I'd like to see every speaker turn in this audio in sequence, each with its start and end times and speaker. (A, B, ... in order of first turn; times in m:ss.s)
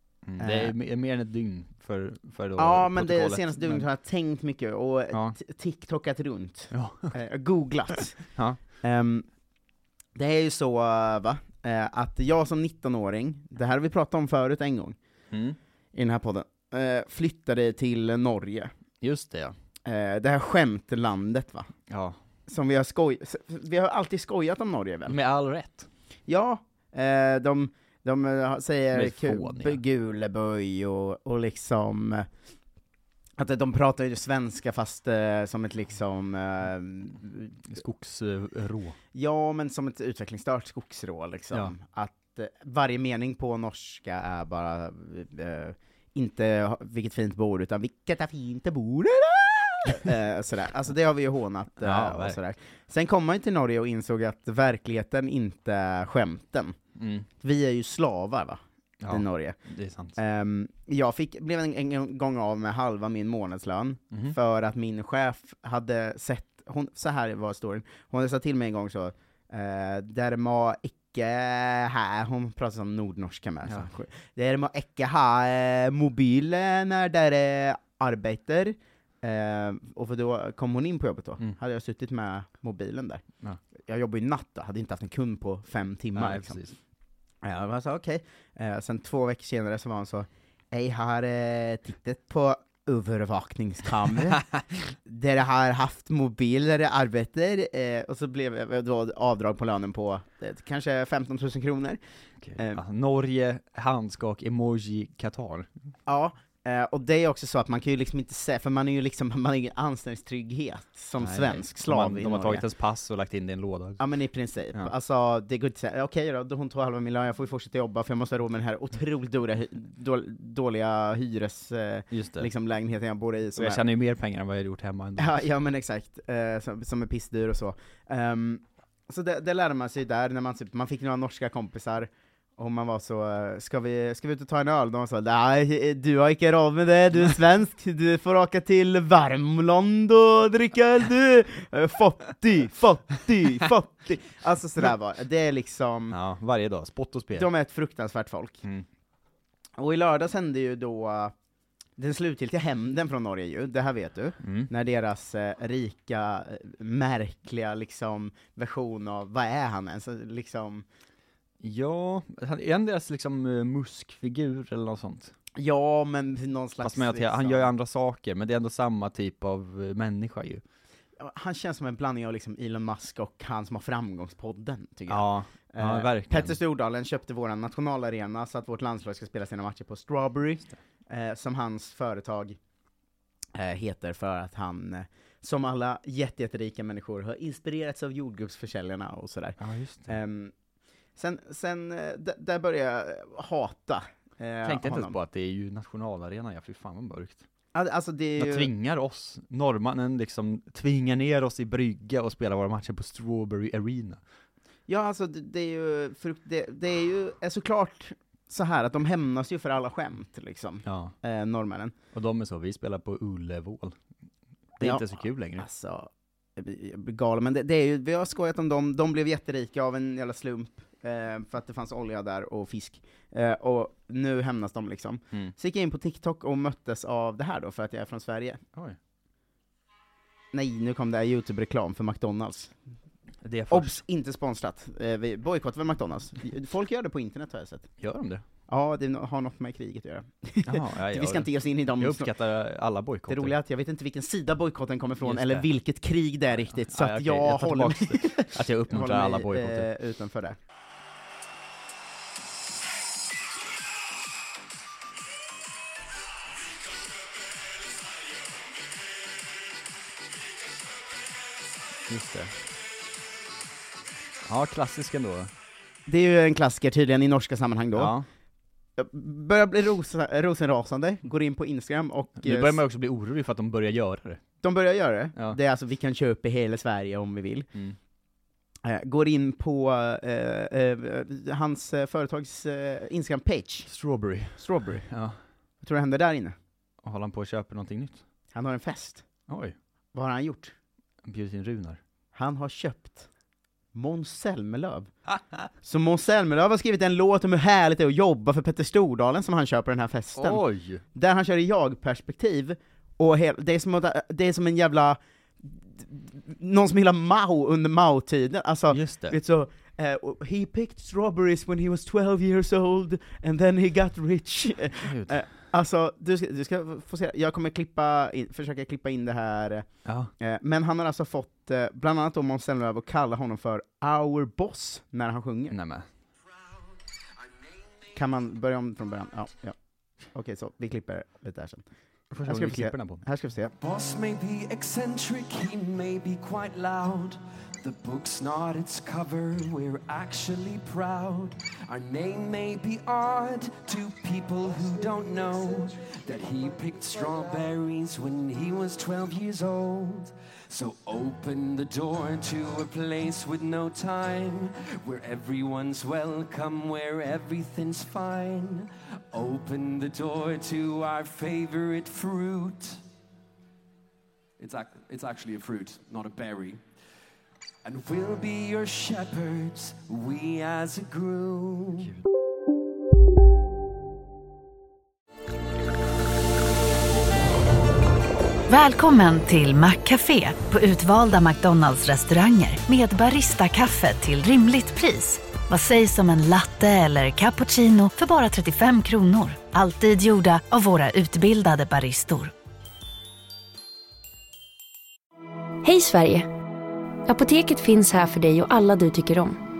0:00.2-0:03.8 A
0:00.4-0:00.7 B
0:02.6-0:08.2 B
0:06.7-0:07.1 A
0:08.8-0:09.3 B
0:10.1-0:15.0 B
0:15.3-0:15.6 A
0:15.9-0:18.7 B
0:19.0-0:19.5 A
0:19.8-0:21.7 B
0:21.9-0:22.2 A
0:22.5-0:25.2 B
0:25.1-0:25.9 A
0:26.3-0:32.3 B
0:28.9-0:29.8 A
0:33.4-0:37.6 B
0:37.7-0:39.0 A
0:39.1-0:56.8 B
0:51.8-0:52.4 A
0:57.0-0:57.3 A
0:57.4-0:59.6 B
0:59.0-1:00.2 A
1:00.2-1:23.2 B
1:23.8-1:26.6 B
1:26.2-1:26.8 A
1:27.4-1:34.4 B
1:35.0-1:42.0 B
1:42.4-1:45.7 A
1:42.6-1:42.8 B
1:46.1-1:52.6 B
1:51.2-1:54.0 A
1:54.0-2:03.8 B
2:02.1-2:02.5 A
2:03.6-2:05.5 A
2:05.2-2:26.2 B
2:26.1-2:27.5 A
2:27.3-2:28.6 B
2:29.8-2:31.3 B
2:32.0-2:40.8 B
2:34.4-2:34.7 A
2:41.6-2:45.3 A
2:45.6-2:47.7 B
2:46.8-2:50.6 A
2:51.2-3:02.6 B
2:55.1-2:56.6 A
3:03.5-3:09.6 B
3:09.6-3:10.2 A
3:10.1-3:10.5 B
3:11.2-3:15.2 B
3:14.6-3:17.4 A
3:17.7-3:18.7 B
3:18.4-3:24.2 A
3:24.9-3:31.9 B
3:30.8-3:31.1 A
3:32.1-3:33.9 A
3:34.8-3:35.6 A
3:34.8-3:48.6 B
3:50.5-3:52.7 B
3:53.4-3:54.0 A
3:53.7-3:57.9 B
3:58.0-3:58.4 A
3:58.7-4:02.3 B
4:00.7-4:03.5 A
4:03.3-4:10.6 B
4:05.2-4:05.7 A
4:06.6-4:09.9 A
4:22.1-4:22.5 A
4:24.4-4:25.5 A
4:26.0-4:28.1 B
4:27.9-4:28.3 A
4:29.0-4:32.8 B
4:32.4-4:34.4 A
4:34.6-4:37.7 B
4:38.8-4:43.9 B
4:43.9-4:45.4 A
4:44.6-4:45.0 B
4:45.8-4:46.6 B
4:47.0-4:48.2 A
4:48.5-4:49.2 B
4:49.5-4:49.8 A
4:50.1-4:50.7 B
4:51.2-4:52.0 A
4:52.3-4:53.3 B
4:53.9-4:55.1 B
4:55.8-5:00.6 B
5:00.4-5:01.0 A
5:01.1-5:19.9 B
5:08.9-5:09.4 A
5:15.0-5:15.4 A
5:20.0-5:20.3 A
5:20.4-5:25.8 B
5:25.7-5:26.1 A
5:28.1-5:29.8 B
5:30.3-5:31.8 B
5:32.3-5:33.2 A
5:32.4-5:33.7 B
5:33.8-6:03.0 C
6:04.6-6:06.8 C
6:07.8-6:12.1 C
6:18.7-6:32.5 D
6:35.8-6:36.5 E
6:37.3-6:39.6 E